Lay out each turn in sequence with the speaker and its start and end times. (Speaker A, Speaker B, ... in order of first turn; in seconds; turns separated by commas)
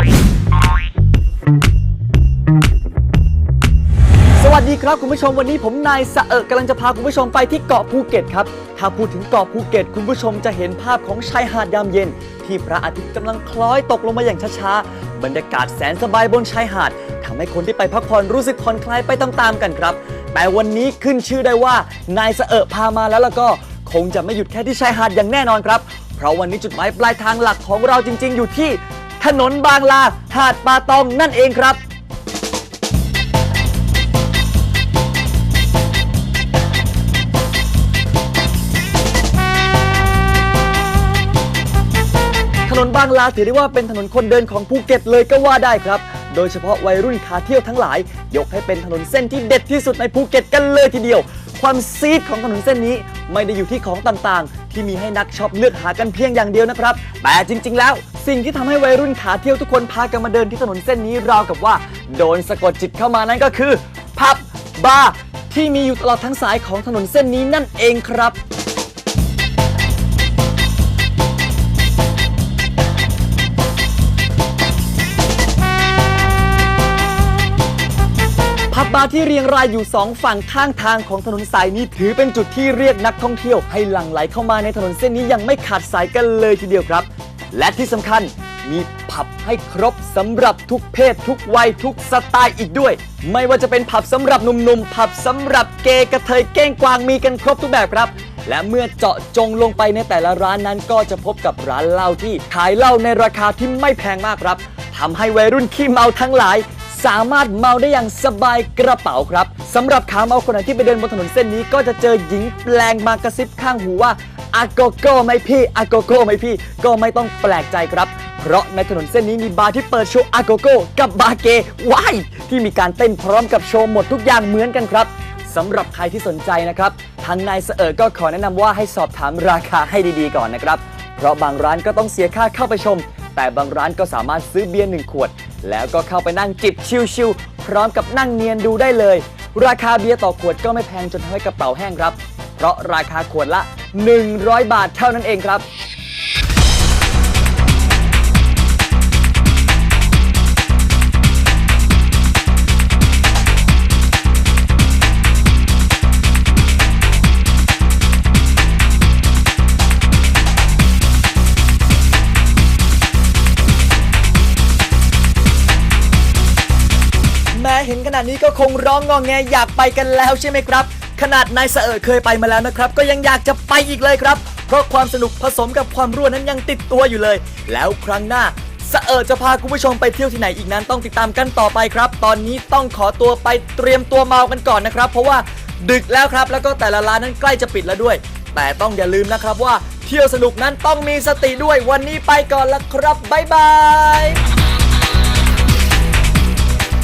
Speaker A: 4.4-31.8, Speaker A: 42.6-68.4, Speaker A: 78.7-145.7, Speaker A: 167.5-194.4